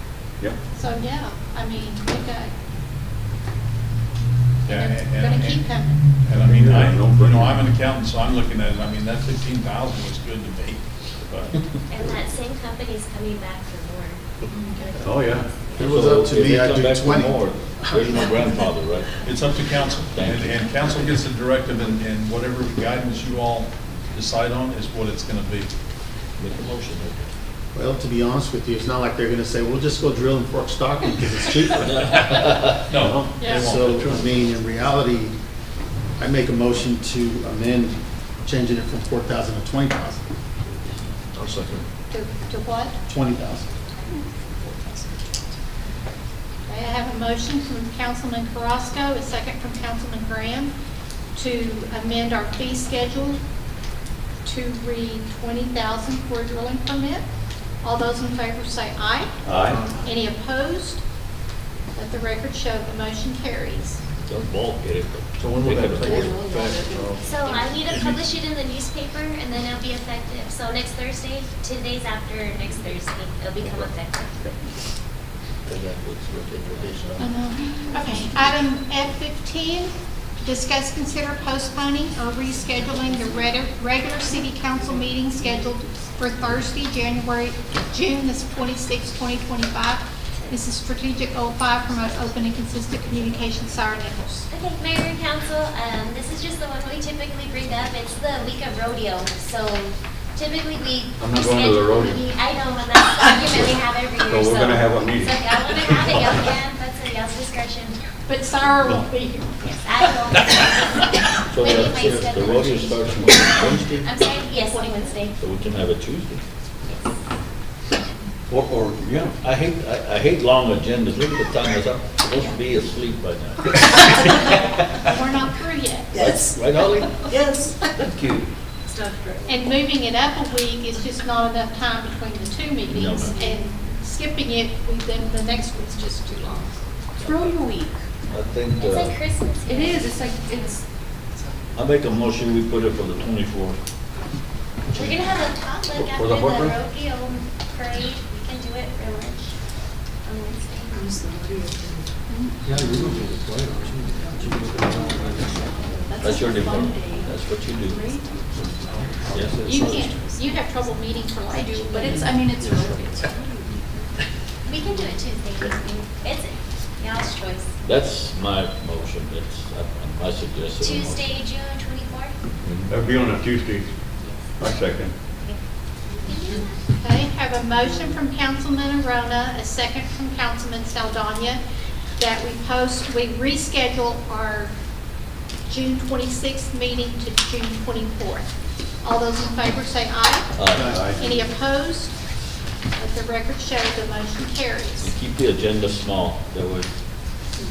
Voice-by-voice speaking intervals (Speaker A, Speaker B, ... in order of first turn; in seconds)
Speaker A: 0.7-2.5, 4.7-6.0, 42.1-43.0, 46.7-50.7, 51.3-53.4, 54.4-57.3, 57.8-61.0, 62.0-64.0, 77.2-94.5, 108.3-109.7, 124.9-126.6, 129.4-136.8, 159.6-162.4, 177.0-181.6, 182.2-184.7, 185.7-188.5, 189.0-192.2, 192.9-195.1
Speaker B: 4.7-11.6, 19.2-25.7, 32.9-34.4, 59.5-59.8, 65.4-67.2
Speaker C: 6.3-7.6, 15.0-15.5, 33.0-33.4, 59.5-59.8, 101.2-102.3, 103.5-103.7, 104.2-105.5, 118.5-119.3, 146.0-146.7, 172.9-173.9, 174.6-175.1, 190.8-191.2
Speaker D: 11.9-15.9, 67.2-74.3, 94.5-108.0, 109.6-115.4, 138.8-140.8, 144.9-149.5, 150.3-151.2, 164.7-167.7, 170.8-172.3, 174.2-174.7, 176.2-176.8
Speaker E: 15.7-18.6, 27.7-32.5, 33.5-35.4, 36.2-40.2, 43.1-43.7, 111.6-112.9, 152.6-155.7, 159.0-159.5, 190.7-191.0
Speaker F: 15.7-19.2, 20.0-20.9, 26.4-27.3, 31.8-33.0, 41.3-41.8, 64.2-66.5, 75.7-77.2, 111.5-114.1, 115.4-117.0, 119.4-124.6, 126.1-128.5, 132.9-133.4, 137.2-137.5, 138.3-139.2, 141.7-143.8, 156.2-158.4, 159.2-159.8, 167.8-171.4, 190.6-191.2, 195.0-196.9
Speaker G: 44.6-45.3, 66.2-67.2, 127.3-127.9, 128.9-129.5, 137.2-138.0, 139.7-140.8, 150.9-152.1, 152.7-153.3, 153.8-160.8, 161.5-164.0